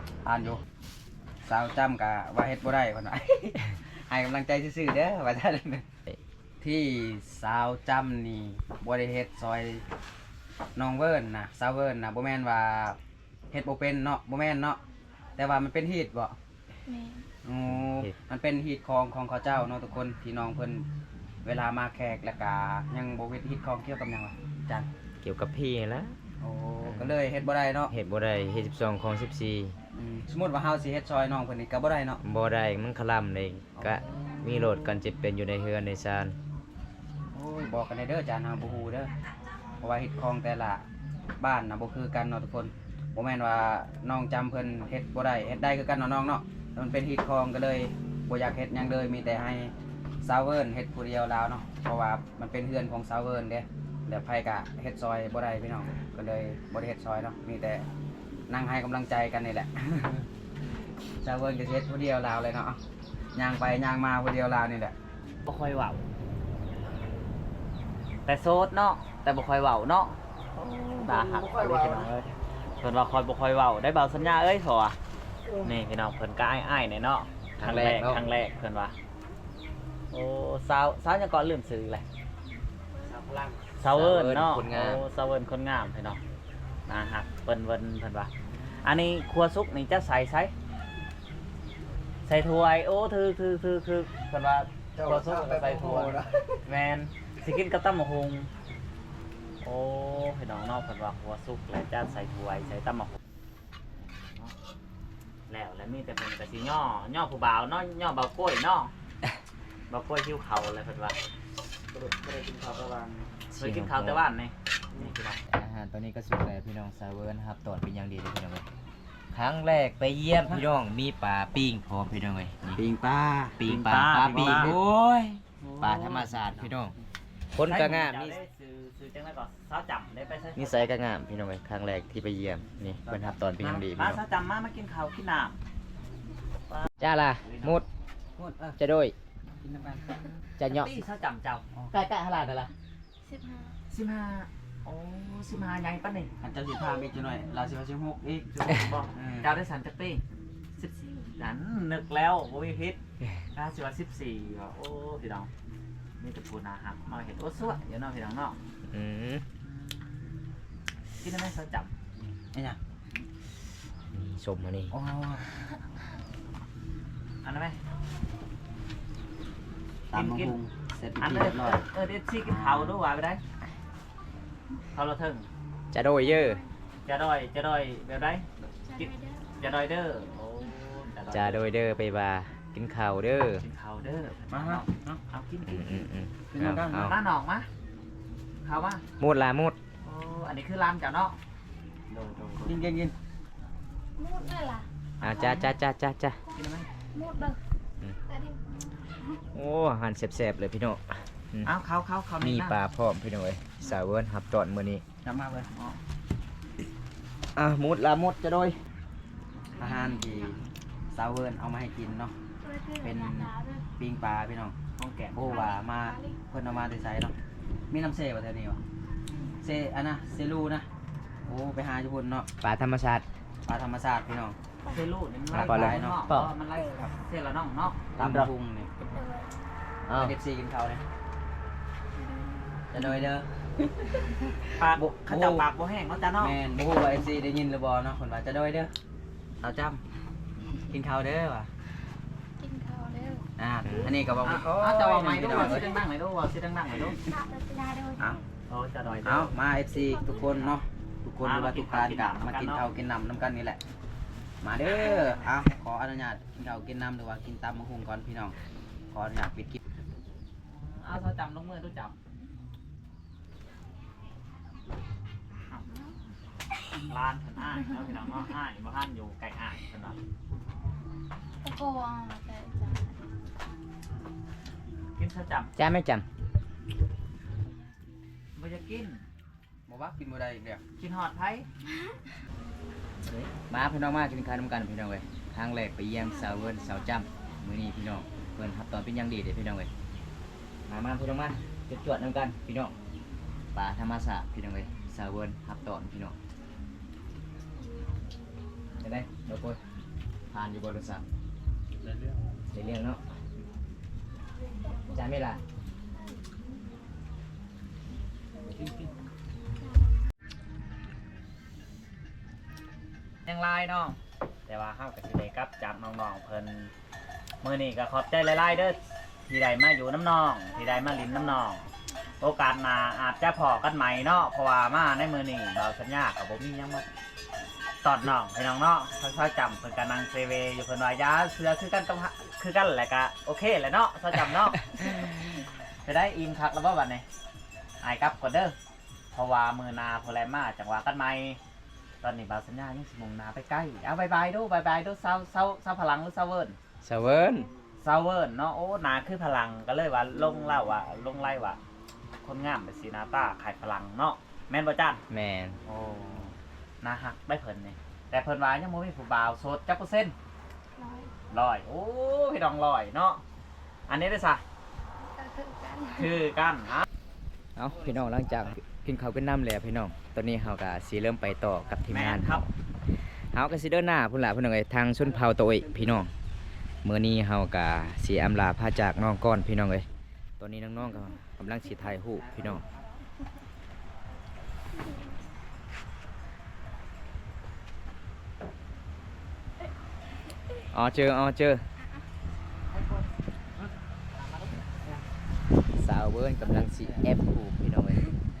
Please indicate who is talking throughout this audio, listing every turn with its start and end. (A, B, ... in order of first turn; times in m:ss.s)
0:00.2-0:00.6 A
0:01.4-0:05.8 A
0:06.6-0:09.8 A
0:10.8-0:13.0 A
0:13.5-0:14.8 A
0:15.4-0:16.4 A
0:16.9-0:17.3 B
0:17.4-0:20.8 A
0:17.7-0:18.1 C
0:21.4-0:24.9 A
0:25.2-0:26.2 C
0:26.4-0:27.9 A
0:26.8-0:27.1 C
0:27.9-0:29.7 C
0:29.9-0:32.2 A
0:32.2-0:36.4 C
0:33.8-0:34.1 A
0:37.3-0:39.1 A
0:39.8-0:40.8 A
0:41.4-0:57.9 A
0:58.5-1:00.3 A
1:01.2-1:02.8 A
1:03.3-1:04.9 A
1:05.4-1:06.0 D
1:08.2-1:10.2 D
1:10.8-1:15.0 D
1:15.6-1:18.9 D
1:17.6-1:18.2 C
1:20.1-1:22.0 D
1:23.0-1:23.6 A
1:23.8-1:26.2 D
1:23.9-1:25.0 C
1:26.9-1:28.3 D
1:28.8-1:30.5 D
1:32.2-1:38.5 D
1:35.0-1:36.6 A
1:39.6-1:43.2 D
1:43.9-1:44.5 D
1:45.5-1:48.9 D
1:49.9-1:51.2 D
1:51.9-1:53.3 A
1:53.5-1:54.2 C
1:53.6-1:55.4 D
1:55.5-1:58.6 C
1:59.3-2:02.8 C
2:02.7-2:03.6 A
2:03.6-2:06.9 C
2:03.6-2:04.7 D
2:04.3-2:05.0 A
2:05.6-2:06.3 D
2:07.5-2:08.4 C
2:07.6-2:10.9 D
2:10.5-2:14.2 C
2:13.0-2:13.9 A
2:13.9-2:15.6 D
2:16.7-2:17.8 D
2:17.0-2:17.8 C
2:18.4-2:18.8 A
2:18.8-2:19.1 C
2:19.6-2:20.0 A
2:20.6-2:21.0 C
2:20.7-2:21.6 D
2:21.9-2:22.7 C
2:23.2-2:23.8 B
2:23.9-2:26.3 D
2:26.4-2:29.6 A
2:28.5-2:30.2 D
2:30.8-2:31.3 B
2:31.4-2:33.0 D
2:33.5-2:35.5 D
2:36.2-2:38.6 D
2:38.9-2:39.4 C
2:41.2-2:41.9 D
2:42.5-2:42.8 A
2:44.1-2:44.9 C
2:44.9-2:45.4 A
2:47.4-2:47.8 D
2:50.1-2:51.8 A
2:50.1-2:50.6 D
2:51.2-2:53.4 D
2:52.4-2:53.0 A
2:54.9-2:55.5 D
2:55.9-2:56.6 C
2:56.2-2:56.7 B
2:57.0-3:01.7 D
2:58.8-2:59.7 B
3:01.3-3:03.6 C
3:03.6-3:06.0 D
3:04.5-3:05.2 A
3:05.6-3:07.1 C
3:06.5-3:07.1 A
3:06.9-3:07.7 D
3:08.6-3:09.0 D
3:09.2-3:09.8 C
3:10.0-3:11.4 D
3:12.1-3:12.8 D
3:12.6-3:13.1 A
3:14.2-3:14.8 B
3:15.2-3:15.8 D
3:15.2-3:16.4 C
3:16.5-3:16.9 D
3:17.1-3:17.6 B
3:18.3-3:18.6 B
3:19.5-3:21.7 C
3:21.6-3:22.8 D
3:22.4-3:25.0 C
3:25.2-3:25.7 A
3:25.7-3:26.0 D
3:27.5-3:28.8 C
3:29.7-3:30.4 B
3:29.8-3:32.3 A
3:32.6-3:33.8 B
3:33.0-3:34.7 A
3:35.0-3:35.6 D
3:35.3-3:37.3 A
3:35.5-3:36.4 B
3:37.9-3:38.8 A
3:39.3-3:39.6 B
3:39.6-3:40.9 A
3:41.4-3:42.5 A
3:42.6-3:43.2 C
3:43.6-3:44.6 A
3:44.9-3:48.5 D
3:45.5-3:46.5 C
3:45.5-3:46.2 A
3:48.2-3:48.9 A
3:49.1-3:49.5 B
3:50.1-3:50.3 C
3:50.1-3:51.0 A
3:52.2-3:52.7 B
3:52.9-3:53.5 A
3:54.8-3:56.6 D
3:54.9-3:55.7 A
3:56.4-3:58.9 A
3:59.6-4:00.0 A
4:00.9-4:01.7 A
4:02.6-4:03.4 B
4:03.6-4:06.0 A
4:03.8-4:04.1 C
4:04.4-4:07.2 D
4:07.2-4:08.4 B
4:08.7-4:09.5 D
4:09.2-4:13.8 A
4:10.0-4:10.5 B
4:11.4-4:12.9 D
4:14.6-4:18.6 A
4:15.0-4:15.3 B
4:19.1-4:19.8 A
4:20.6-4:22.1 D
4:25.7-4:26.0 D
4:27.0-4:30.2 D
4:31.6-4:33.3 B
4:35.2-4:35.7 D
4:35.8-4:36.2 C
4:37.6-4:37.9 B
4:38.6-4:39.2 D
4:39.9-4:40.8 A
4:41.0-4:41.7 D
4:43.2-4:43.5 D
4:43.7-4:49.9 C
4:46.4-4:46.9 B
4:50.9-4:52.9 C
4:53.7-4:56.3 C
4:59.0-4:59.8 C
5:00.5-5:01.2 C
5:02.7-5:03.2 C
5:05.1-5:05.6 C
5:13.4-5:16.9 D
5:17.6-5:27.0 D
5:20.8-5:21.4 B
5:28.0-5:37.2 D
5:38.0-5:38.7 D
5:39.3-5:41.6 D
5:42.2-5:46.8 D
5:47.0-5:47.7 C
5:48.0-5:51.8 D
5:52.4-5:55.2 D
5:55.3-5:55.8 C
5:55.8-6:00.3 D
6:01.0-6:01.3 B
6:01.5-6:03.4 D
6:04.1-6:04.6 D
6:05.2-6:06.4 B
6:06.1-6:07.1 D
6:07.8-6:12.6 C
6:12.1-6:12.7 D
6:13.5-6:16.3 C
6:17.0-6:20.0 C
6:20.6-6:22.8 C
6:22.6-6:23.0 A
6:24.9-6:25.3 B
6:30.9-6:31.8 C
6:36.0-6:38.3 C